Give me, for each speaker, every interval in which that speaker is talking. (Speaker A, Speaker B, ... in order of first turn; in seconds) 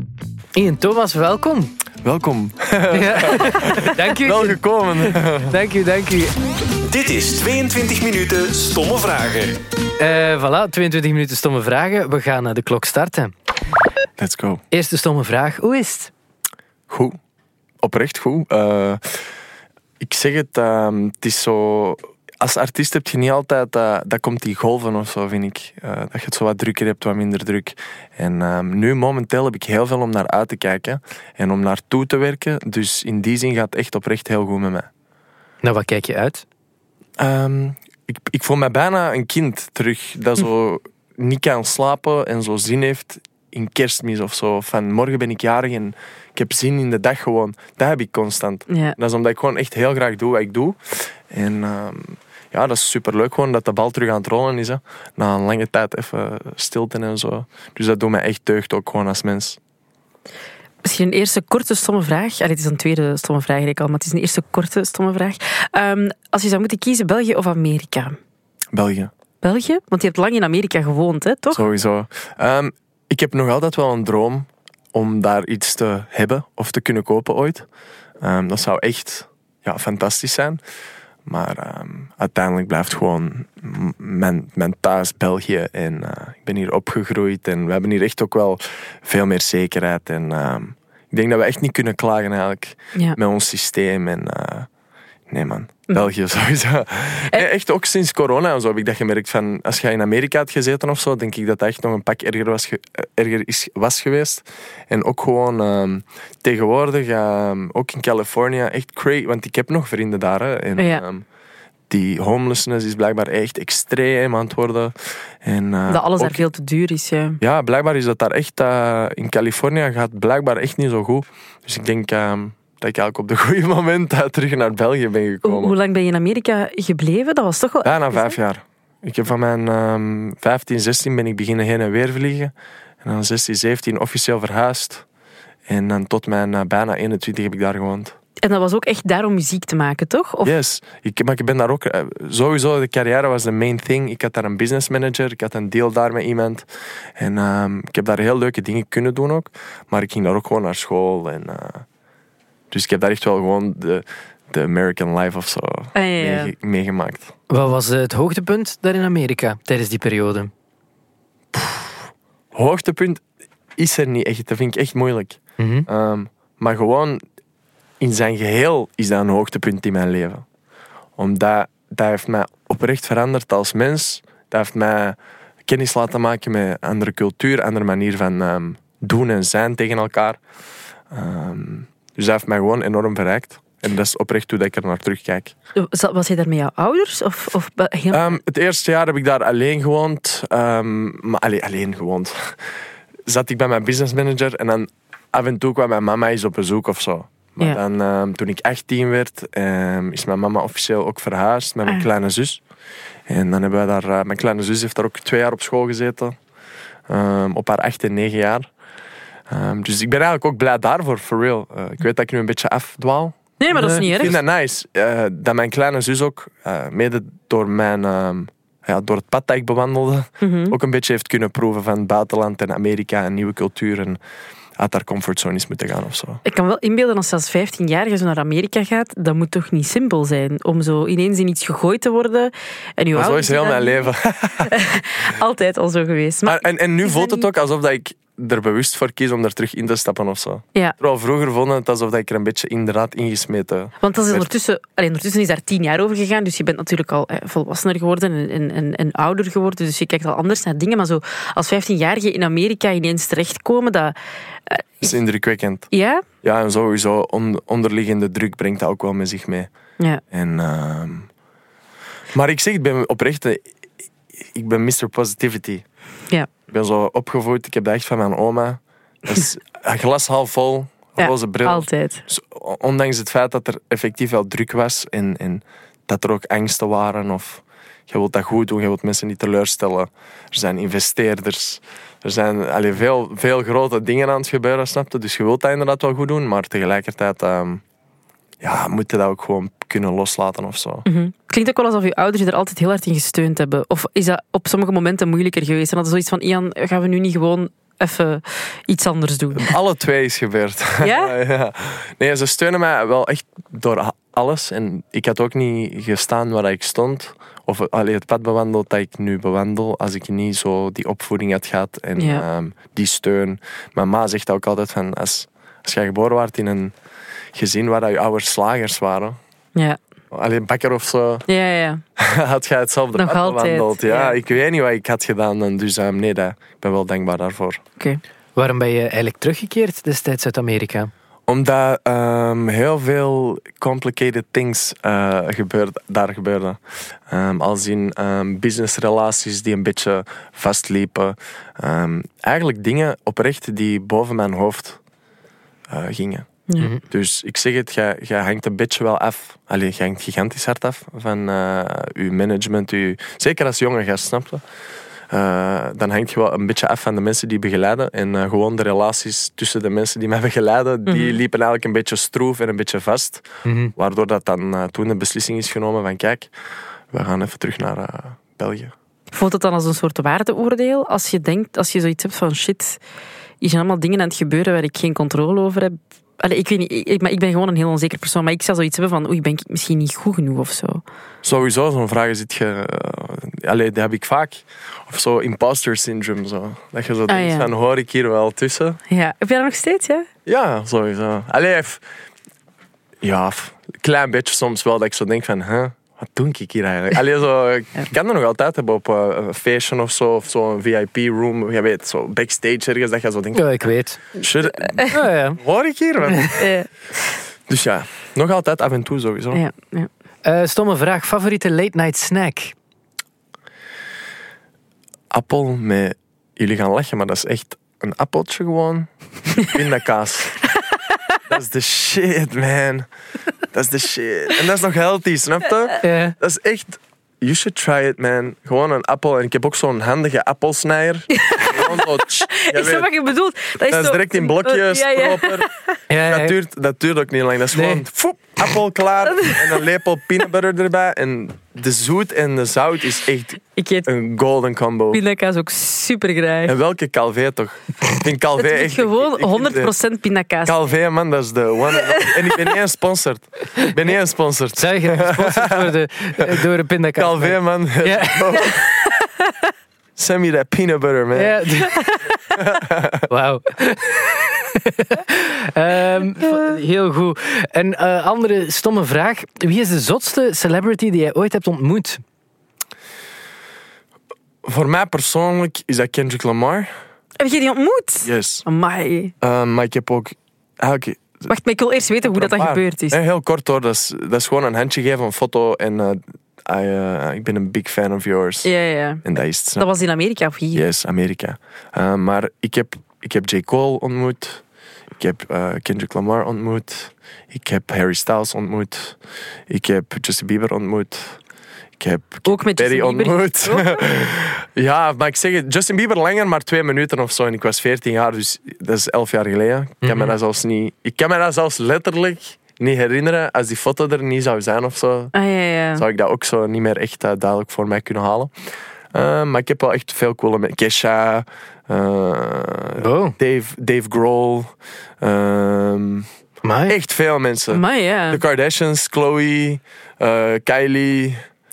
Speaker A: 0.6-1.8, 2.9-6.3, 10.0-13.3, 14.7-16.1, 35.6-36.4, 157.5-160.5, 165.6-165.9, 213.7-214.1, 328.6-331.1, 363.6-363.9, 403.5-404.2, 405.1-405.6, 410.4-412.8, 426.0-426.4, 436.1-436.6, 437.7-438.0, 454.8-458.7, 461.3-462.1, 463.3-472.2, 510.0-510.3, 523.0-523.4, 526.6-527.0
Speaker B: 2.0-5.6, 14.2-14.6, 16.9-17.2, 17.8-19.2, 20.0-34.9, 37.2-59.6, 68.7-69.1, 71.5-77.7, 78.2-80.6, 81.3-94.7, 95.3-111.2, 111.9-116.4, 117.4-125.8, 127.8-135.0, 135.7-138.2, 140.4-151.8, 152.7-157.3, 161.5-161.9, 162.5-163.2, 163.8-167.2, 168.0-170.4, 171.2-180.4, 181.1-185.5, 188.1-192.6, 193.3-202.6, 203.3-206.4, 207.1-208.7, 209.5-224.2, 224.8-226.4, 233.1-234.7, 236.5-244.5, 255.0-255.9, 256.4-259.7, 260.3-261.3, 262.3-263.6, 264.4-265.8, 266.7-287.8, 288.6-291.1, 299.5-316.9, 317.5-319.4, 320.3-321.4, 322.2-327.8, 331.5-345.0, 345.9-346.5, 347.0-354.6, 355.3-366.5, 367.1-368.9, 381.4-389.0, 390.5-392.0, 393.2-403.7, 404.4-406.7, 407.7-409.6, 415.3-419.1, 419.6-420.6, 421.5-423.1, 423.7-433.1, 433.9-435.7, 436.2-445.2, 446.7-449.9, 450.6-456.6, 457.2-458.9, 460.2-461.6, 462.5-463.3, 474.6-476.9, 478.2-478.6, 479.4-481.5, 482.2-488.7, 489.2-489.9, 490.7-494.6, 495.2-501.4, 502.0-515.3, 516.0-518.5, 519.1-526.3, 526.9-531.4
Speaker C: 6.8-9.6
Speaker D: 48.7-49.0, 60.8-68.2, 69.4-71.6, 110.8-111.0, 115.9-117.4, 125.4-128.4, 138.4-140.5, 155.9-156.5, 185.8-188.4, 213.6-214.4, 220.4-220.8, 226.4-237.5, 244.0-254.2, 254.7-255.1, 255.9-256.2, 271.2-272.2, 291.1-299.8, 301.0-301.4, 312.2-312.4, 321.5-322.0, 323.1-324.4, 361.1-361.4, 369.3-373.0, 373.6-381.0, 387.3-387.7, 389.1-390.3, 404.8-405.1, 406.4-406.9, 409.5-410.1, 431.4-435.9, 439.3-439.8, 443.8-444.1, 445.1-446.8, 448.6-450.8, 451.9-452.8, 461.9-462.2, 477.4-479.3, 481.5-483.2, 488.6-489.2, 489.8-490.8, 502.4-504.0, 515.3-516.0, 527.7-528.4